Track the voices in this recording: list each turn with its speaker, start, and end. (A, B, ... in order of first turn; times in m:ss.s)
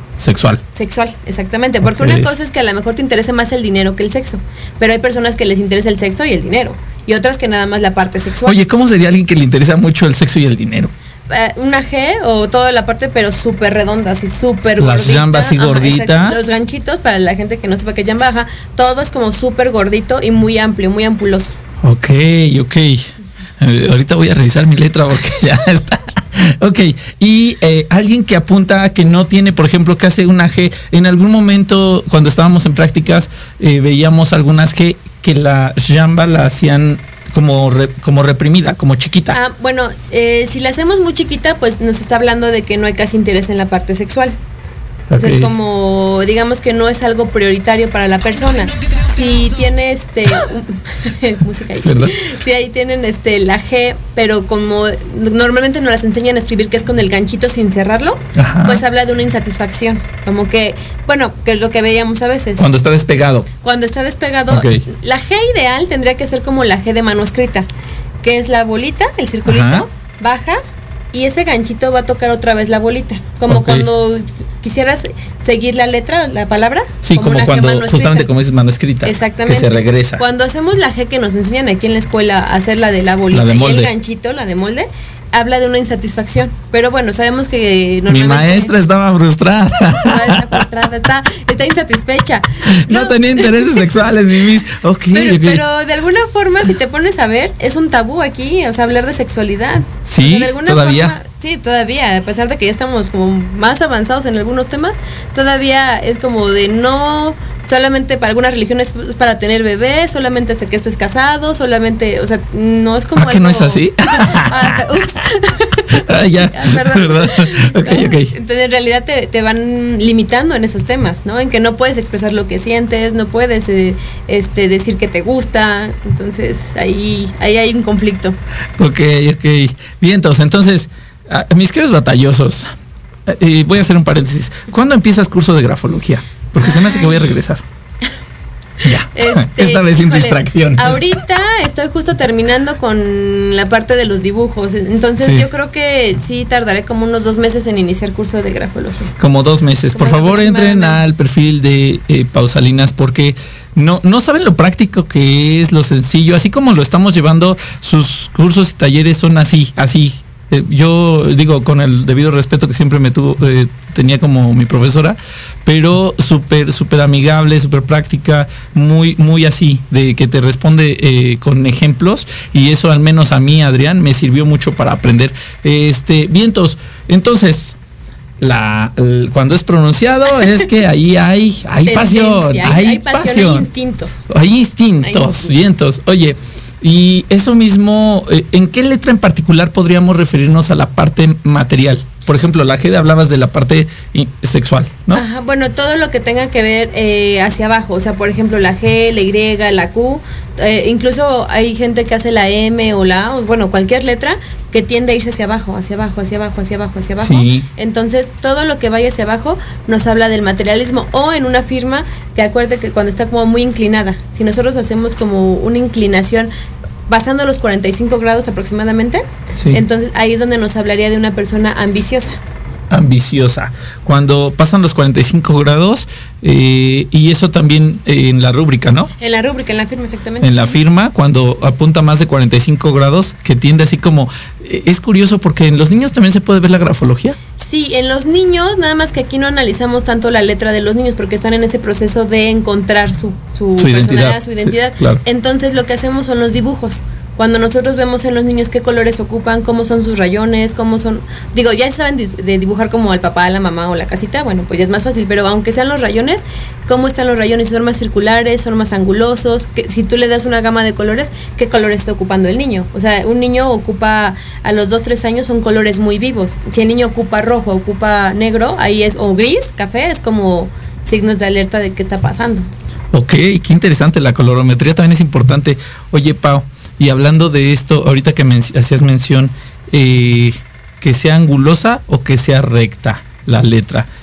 0:00.2-0:00.6 A
0:00.8-0:08.6 B
0:01.8-0:02.3 A
0:08.4-0:10.9 A
0:11.3-0:21.6 B
0:14.8-0:16.4 A
0:21.8-0:39.4 A
0:39.3-0:44.4 B
0:45.1-0:45.5 A
0:45.1-1:02.7 B
0:51.8-0:52.2 A
0:58.4-0:58.8 A
1:02.6-1:03.5 A
1:03.6-1:07.7 B
1:04.5-1:04.8 A
1:08.2-1:10.6 B
1:09.4-1:09.9 A
1:11.1-1:18.3 B
1:13.5-1:13.9 A
1:17.0-1:20.2 A
1:19.0-1:28.7 B
1:23.3-1:23.9 A
1:28.1-1:30.6 A
1:30.0-1:33.8 B
1:32.7-1:35.6 A
1:35.1-2:08.4 B
1:40.1-1:41.2 A
1:53.2-1:54.9 A
1:55.9-1:58.3 A
2:08.8-2:12.7 A
2:13.3-2:17.6 A
2:16.6-2:17.3 B
2:18.8-2:21.0 A
2:18.8-2:29.2 B
2:25.2-2:25.5 A
2:29.2-2:57.8 A
2:30.0-2:31.1 B
2:58.4-3:03.7 A
3:01.9-3:04.2 B
3:04.3-3:15.2 A
3:05.0-3:05.8 B
3:15.1-3:36.5 B
3:27.2-3:27.7 A
3:37.1-3:42.4 B
3:42.9-3:49.1 A
3:49.2-3:50.8 B
3:50.4-3:57.4 A
3:57.6-4:32.7 B
4:03.8-4:05.2 A
4:33.1-4:44.1 A